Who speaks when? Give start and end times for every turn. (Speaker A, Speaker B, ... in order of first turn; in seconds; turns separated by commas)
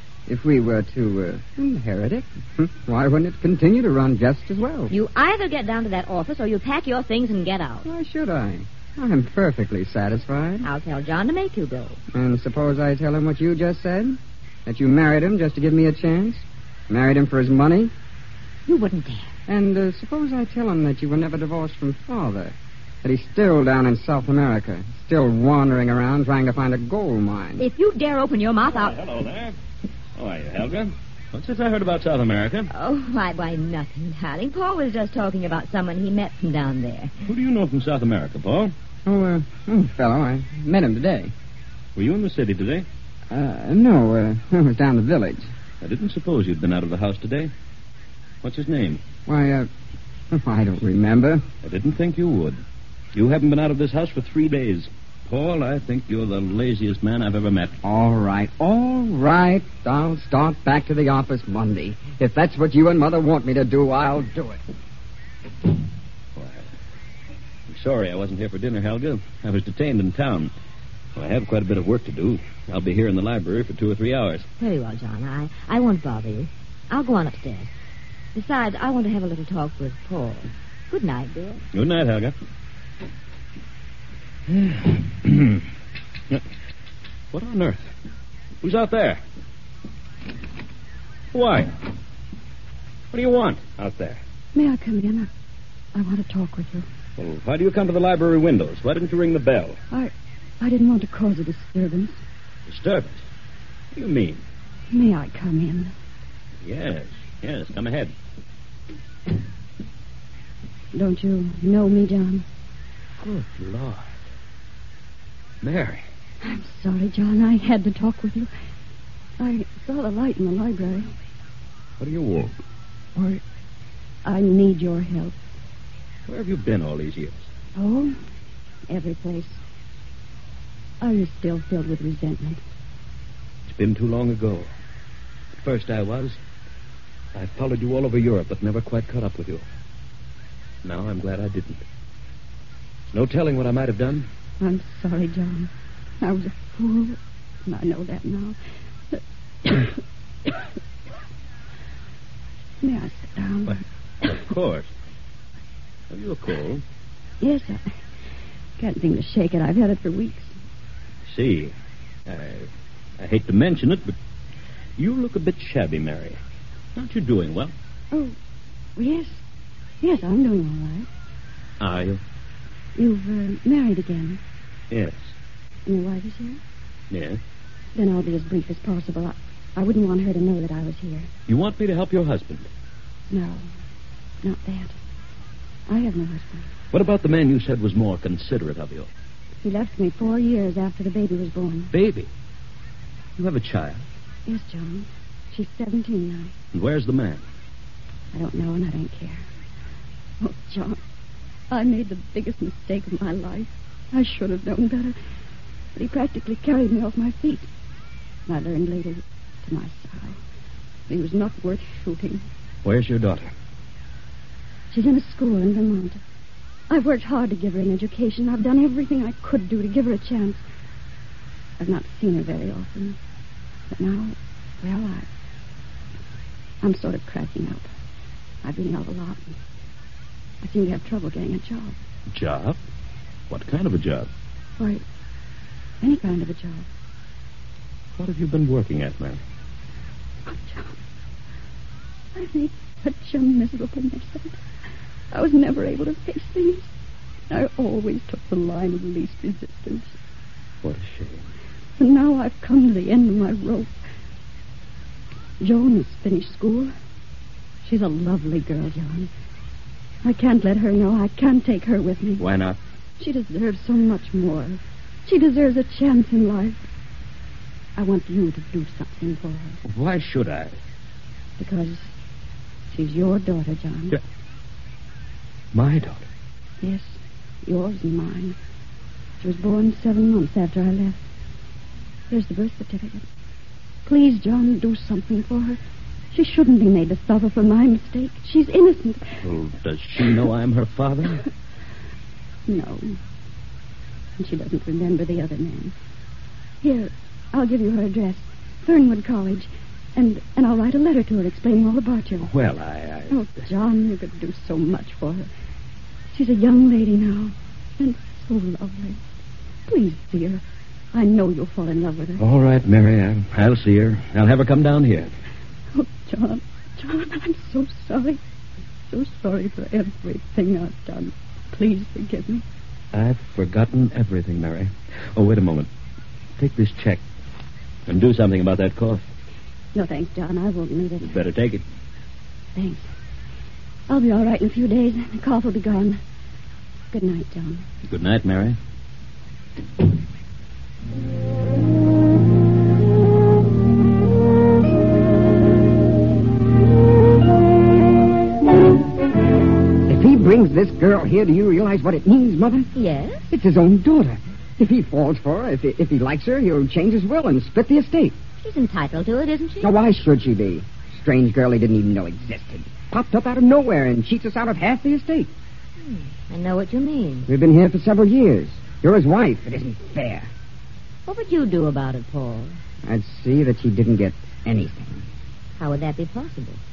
Speaker A: 0.3-4.9, Speaker B: 4.9-7.8, Speaker A: 7.8-10.7, Speaker B: 10.6-12.0, Speaker A: 12.1-17.9, Speaker B: 18.7-19.3, Speaker A: 19.5-27.6, Speaker B: 27.6-29.0, Speaker C: 28.7-29.6, Speaker C: 30.1-32.7, Speaker B: 32.7-37.1, Speaker C: 37.2-38.7, Speaker A: 39.0-41.3, Speaker C: 42.0-42.9, Speaker A: 43.3-45.5, Speaker C: 45.8-47.5, Speaker C: 48.4-49.0, Speaker A: 49.2-49.7, Speaker A: 50.3-51.4, Speaker C: 51.6-52.6, Speaker C: 53.1-57.8, Speaker A: 57.8-64.6, Speaker C: 66.4-66.7, Speaker C: 67.7-70.5, Speaker C: 71.2-74.5, Speaker B: 74.6-77.7, Speaker B: 78.3-81.6, Speaker C: 81.7-82.3, Speaker C: 84.5-85.6, Speaker C: 87.3-87.9, Speaker C: 88.6-89.2, Speaker C: 91.3-91.7, Speaker C: 93.1-94.2, Speaker D: 94.5-95.3, Speaker D: 95.9-96.9, Speaker C: 97.2-99.8, Speaker D: 99.9-102.2, Speaker C: 102.7-103.2, Speaker C: 103.9-104.4, Speaker D: 104.9-105.9, Speaker C: 106.6-108.1, Speaker D: 110.9-112.4, Speaker C: 113.2-114.1, Speaker C: 115.6-116.0, Speaker D: 116.4-118.5, Speaker D: 119.4-121.1, Speaker C: 122.0-122.5, Speaker D: 123.1-123.4, Speaker D: 124.2-125.4, Speaker C: 126.3-127.4, Speaker D: 127.7-128.2, Speaker D: 128.9-129.6, Speaker D: 131.0-132.6, Speaker C: 133.7-134.7, Speaker C: 135.6-136.4, Speaker C: 137.3-139.6, Speaker C: 140.8-141.8, Speaker C: 143.1-144.3, Speaker D: 144.6-148.6, Speaker D: 149.1-150.6, Speaker D: 152.8-153.8, Speaker C: 153.7-154.9, Speaker C: 156.1-156.8, Speaker D: 157.4-157.9, Speaker D: 158.8-160.5, Speaker C: 161.3-161.7, Speaker C: 162.2-162.7, Speaker C: 163.2-164.1, Speaker C: 165.0-166.4, Speaker C: 166.9-167.7, Speaker D: 168.9-169.4, Speaker D: 170.0-171.1, Speaker C: 171.8-172.2, Speaker D: 172.9-174.4, Speaker C: 174.9-175.3, Speaker D: 175.9-176.6, Speaker C: 177.1-177.4, Speaker D: 177.9-181.3, Speaker C: 181.5-182.7, Speaker D: 183.3-183.7, Speaker D: 184.4-185.0, Speaker D: 185.9-186.7, Speaker C: 186.9-189.1, Speaker D: 189.6-191.9, Speaker C: 191.9-192.3, Speaker C: 193.4-194.1, Speaker D: 194.4-196.5, Speaker C: 196.7-197.4, Speaker D: 198.3-199.4, Speaker D: 200.4-201.0, Speaker D: 201.7-205.2, Speaker D: 205.9-207.7, Speaker D: 208.5-210.4, Speaker D: 211.1-212.4, Speaker C: 212.8-213.5, Speaker D: 214.9-216.2, Speaker D: 216.9-220.6, Speaker D: 221.8-223.2, Speaker D: 223.9-225.3, Speaker D: 226.8-227.9, Speaker D: 228.6-229.6, Speaker D: 230.6-231.9, Speaker C: 232.3-232.8, Speaker C: 233.5-234.3, Speaker D: 234.8-235.0, Speaker D: 236.0-236.9, Speaker C: 238.2-239.4, Speaker D: 240.4-241.0, Speaker D: 242.3-244.6, Speaker D: 245.3-246.9, Speaker D: 247.5-250.1, Speaker C: 250.8-251.5, Speaker D: 252.0-253.9, Speaker D: 255.6-256.9, Speaker D: 257.8-259.3, Speaker D: 260.2-262.4, Speaker C: 262.4-262.8, Speaker D: 263.2-266.8, Speaker D: 267.9-269.8, Speaker C: 269.9-270.8, Speaker D: 271.6-272.1, Speaker D: 272.9-274.2, Speaker C: 275.7-276.2, Speaker D: 276.8-278.6, Speaker D: 279.4-281.2, Speaker D: 282.3-283.2, Speaker D: 284.1-285.8, Speaker D: 286.3-289.4, Speaker C: 289.4-291.4, Speaker D: 292.7-293.2, Speaker D: 294.4-295.9, Speaker D: 296.8-302.5, Speaker C: 302.4-303.6, Speaker D: 303.3-305.5, Speaker D: 306.3-309.2, Speaker D: 309.9-312.4, Speaker C: 312.4-315.3, Speaker D: 315.9-318.4, Speaker D: 319.1-322.6, Speaker C: 323.1-325.9, Speaker C: 326.6-327.2, Speaker C: 328.1-329.2, Speaker D: 329.9-331.4, Speaker C: 331.2-331.8, Speaker D: 332.7-333.1, Speaker D: 334.1-336.2, Speaker D: 337.1-337.9, Speaker C: 338.1-338.8, Speaker A: 350.1-352.9, Speaker B: 352.9-353.5, Speaker A: 353.5-358.4, Speaker B: 358.6-359.9, Speaker A: 359.8-365.5, Speaker B: 366.0-367.5, Speaker A: 367.4-370.5, Speaker B: 371.2-372.8, Speaker A: 373.1-375.2, Speaker B: 375.8-376.8